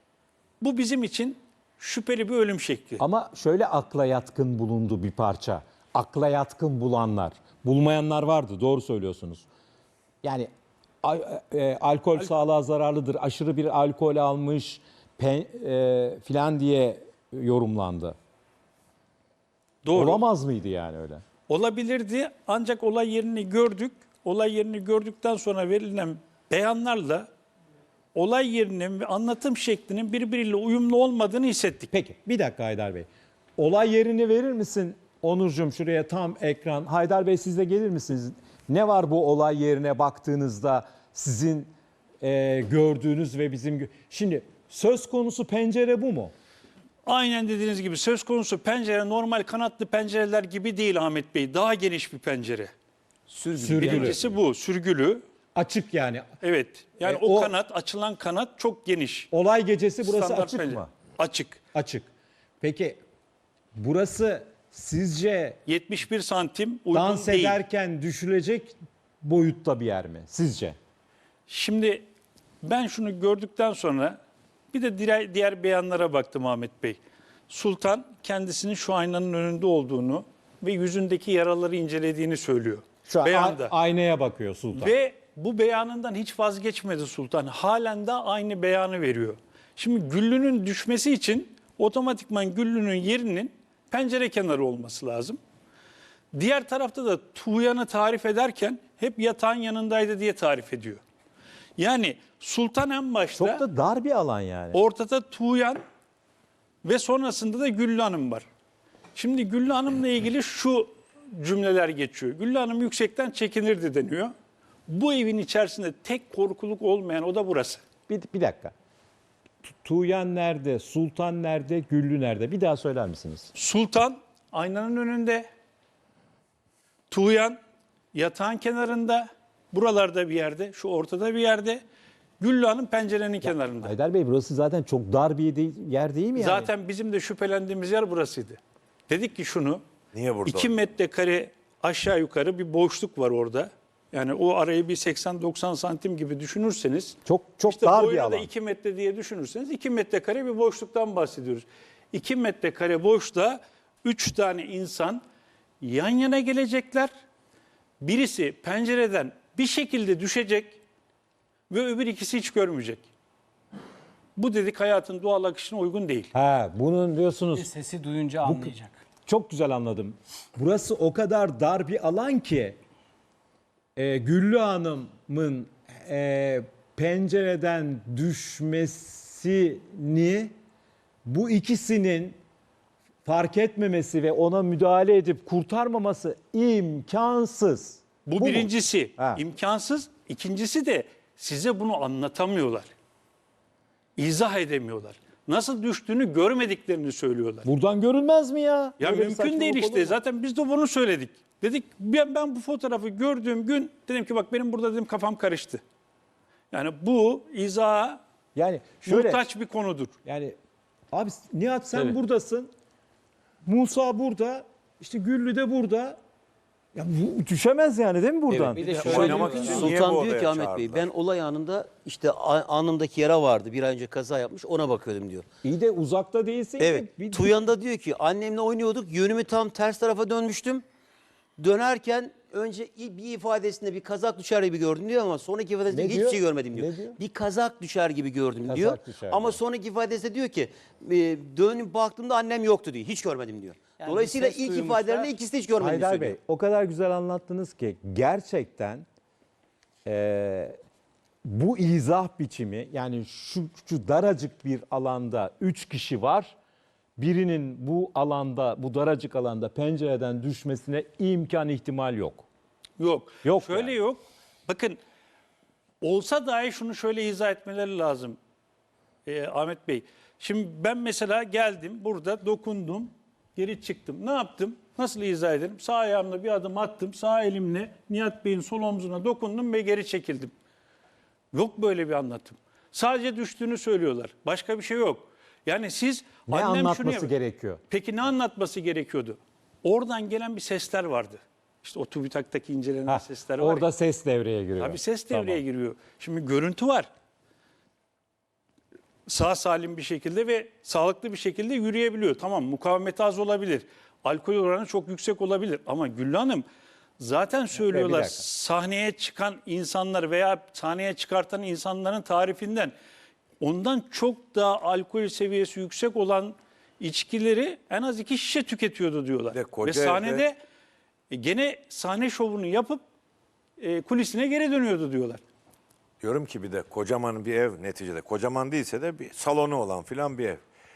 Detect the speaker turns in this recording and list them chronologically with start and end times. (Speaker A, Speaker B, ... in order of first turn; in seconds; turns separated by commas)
Speaker A: 0.6-3.0, Speaker B: 3.0-9.5, Speaker B: 10.2-10.5, Speaker B: 11.0-18.2, Speaker A: 19.9-20.2, Speaker B: 19.9-21.2, Speaker A: 21.5-27.2, Speaker A: 28.1-31.9, Speaker B: 31.9-46.3, Speaker A: 47.1-52.7, Speaker C: 53.3-54.4, Speaker B: 53.6-54.2, Speaker A: 53.9-55.2, Speaker B: 55.6-56.3, Speaker A: 56.4-59.3, Speaker B: 57.0-57.5, Speaker B: 59.3-60.9, Speaker A: 60.0-61.6, Speaker B: 61.7-62.1, Speaker B: 62.6-63.0, Speaker B: 63.8-65.6, Speaker A: 65.7-67.6, Speaker B: 66.9-70.8, Speaker A: 71.5-72.0, Speaker A: 72.6-74.2, Speaker A: 74.7-83.7, Speaker B: 83.0-84.9, Speaker A: 84.8-95.4, Speaker A: 96.3-101.0, Speaker A: 101.8-103.6, Speaker B: 103.4-104.8, Speaker A: 104.8-105.8, Speaker A: 106.8-108.5, Speaker A: 109.2-114.3, Speaker A: 114.9-117.8, Speaker B: 118.1-118.7, Speaker B: 119.8-123.5, Speaker A: 123.5-125.5, Speaker A: 127.1-127.6, Speaker A: 128.1-131.8, Speaker A: 132.4-133.9, Speaker B: 133.4-136.7, Speaker A: 136.4-139.8, Speaker D: 140.1-140.8, Speaker A: 140.8-155.2, Speaker B: 147.2-148.5, Speaker A: 155.8-157.1, Speaker A: 158.0-160.8, Speaker A: 161.7-163.1, Speaker A: 164.4-166.3, Speaker B: 166.3-167.7, Speaker E: 167.6-169.0, Speaker B: 168.4-168.7, Speaker B: 169.3-172.8, Speaker B: 174.0-180.5, Speaker B: 181.2-182.4, Speaker B: 183.2-189.4, Speaker A: 188.3-192.9, Speaker A: 194.2-197.7, Speaker B: 197.7-200.2, Speaker A: 199.0-205.8, Speaker A: 206.7-208.2, Speaker B: 208.6-209.4, Speaker A: 209.1-210.1, Speaker B: 210.2-210.6, Speaker B: 211.1-212.7, Speaker B: 213.7-216.2, Speaker B: 216.9-219.9, Speaker C: 218.5-225.5, Speaker E: 218.8-219.9, Speaker D: 218.9-221.1, Speaker B: 225.6-227.7, Speaker C: 226.8-230.8, Speaker C: 231.6-246.4, Speaker B: 235.9-237.2, Speaker B: 238.7-239.6, Speaker E: 244.0-245.3, Speaker B: 245.8-249.1, Speaker B: 250.1-250.8, Speaker B: 251.5-256.6, Speaker B: 257.2-262.5, Speaker A: 263.0-265.0, Speaker B: 263.4-264.0, Speaker A: 266.0-268.4, Speaker A: 269.3-280.5, Speaker A: 281.5-287.3, Speaker B: 286.5-287.8, Speaker A: 287.9-293.9, Speaker B: 293.1-295.6, Speaker A: 294.8-297.1, Speaker A: 299.3-306.6, Speaker A: 307.2-312.9, Speaker B: 307.8-308.5, Speaker A: 313.6-320.5, Speaker D: 319.5-320.5, Speaker A: 321.3-323.0, Speaker A: 323.8-325.4, Speaker D: 326.2-330.6